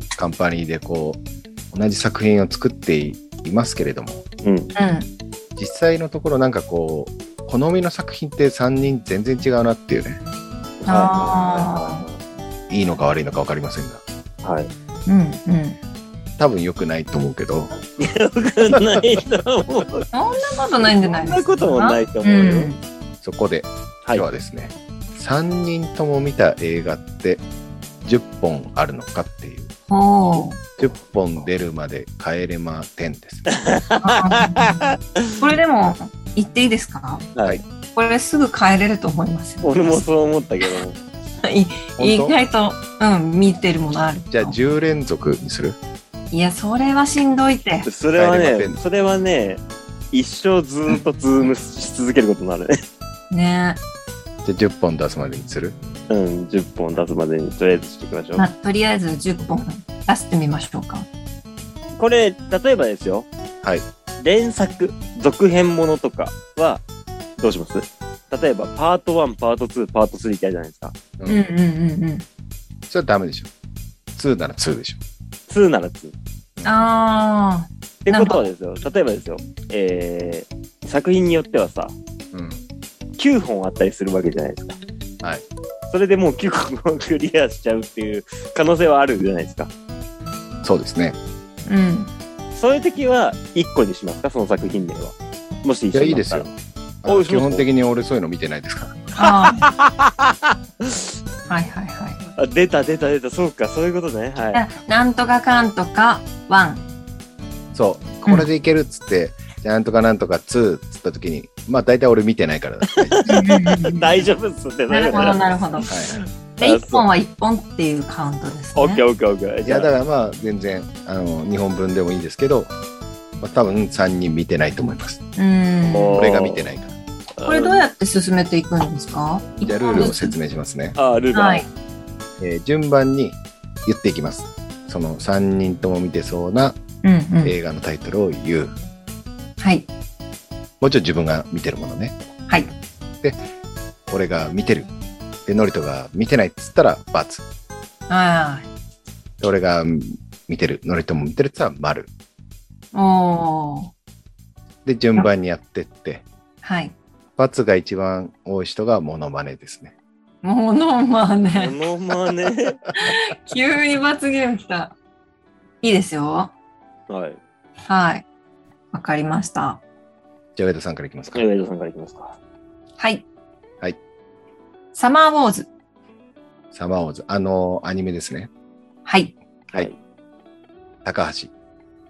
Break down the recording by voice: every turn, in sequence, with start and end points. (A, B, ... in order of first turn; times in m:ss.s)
0:00.2-0:04.2 A
0:04.4-0:04.7 B
0:04.8-0:05.1 C
0:05.6-0:10.2 A
0:10.8-0:12.2 B
0:10.8-0:12.0 C
0:12.7-0:14.0 A
0:14.4-0:14.7 B
0:15.1-0:15.8 C
0:16.4-0:17.7 A
0:17.9-0:20.1 B
0:20.1-0:22.8 C
0:20.8-0:22.7 B
0:23.2-0:27.4 A
0:28.0-0:29.7 A
0:29.9-0:30.6 C
0:30.8-0:33.4 A
0:33.5-0:35.5 B
0:34.0-0:37.3 C
0:37.3-0:37.6 B
0:37.9-0:40.0 C
0:39.6-0:41.0 B
0:41.4-0:44.6 C
0:42.0-0:42.4 A
0:44.3-0:45.8 A
0:46.3-0:47.9 C
0:47.8-0:52.8 B
0:48.1-0:48.8 A
0:53.3-0:53.8 C
0:54.4-0:55.8 A
0:56.1-0:58.4 B
0:58.4-1:01.1 C
1:02.0-1:03.3 B
1:04.2-1:06.8 B
1:07.4-1:11.0 B
1:11.2-1:11.4 A
1:11.3-1:12.2 C
1:12.9-1:13.5 A
1:14.1-1:15.0 A
1:15.5-1:16.1 B
1:16.6-1:18.5 C
1:18.0-1:22.0 B
1:22.3-1:22.6 A
1:23.2-1:24.8 B
1:25.9-1:29.7 B
1:30.6-1:31.2 A
1:31.7-1:32.1 C
1:32.5-1:36.5 B
1:35.9-1:36.5 A
1:37.0-1:39.0 A
1:37.0-1:37.6 B
1:39.1-1:39.7 C
1:39.2-1:41.1 B
1:41.5-1:42.2 C
1:42.4-1:44.6 B
1:44.5-1:46.8 C
1:47.7-1:53.2 A
1:52.9-1:56.0 B
1:53.3-1:54.3 C
1:54.9-1:55.9 C
1:55.9-1:56.3 A
1:56.6-1:57.0 B
1:56.6-1:59.0 C
1:58.7-1:59.9 B
1:59.6-2:02.7 A
2:03.4-2:05.2 A
2:05.4-2:06.3 C
2:05.9-2:06.7 B
2:06.1-2:06.9 A
2:07.4-2:07.8 B
2:07.4-2:10.3 C
2:09.6-2:11.0 A
2:11.0-2:11.7 B
2:11.3-2:11.7 C
2:12.4-2:16.8 A
2:17.0-2:17.6 C
2:17.4-2:18.8 A
2:19.6-2:19.9 C
2:20.8-2:22.2 A
2:22.5-2:22.7 C
2:24.1-2:24.9 A
2:25.4-2:27.4 A
2:28.1-2:28.7 C
2:29.4-2:32.1 A
2:32.9-2:33.9 C
2:34.8-2:36.2 A
2:36.6-2:37.0 C
2:37.4-2:39.9 A
2:40.4-2:41.7 C
2:41.5-2:42.8 B
2:43.0-2:45.0 C
2:45.8-2:46.5 C
2:47.1-2:47.4 B
2:47.9-2:48.2 C
2:48.9-2:49.8 C
2:50.6-2:51.4 A
2:51.3-2:52.4 B
2:53.0-2:53.2 C
2:54.9-2:55.7 C
2:56.7-2:58.5 A
2:59.0-2:59.3 C
3:01.0-3:01.5 A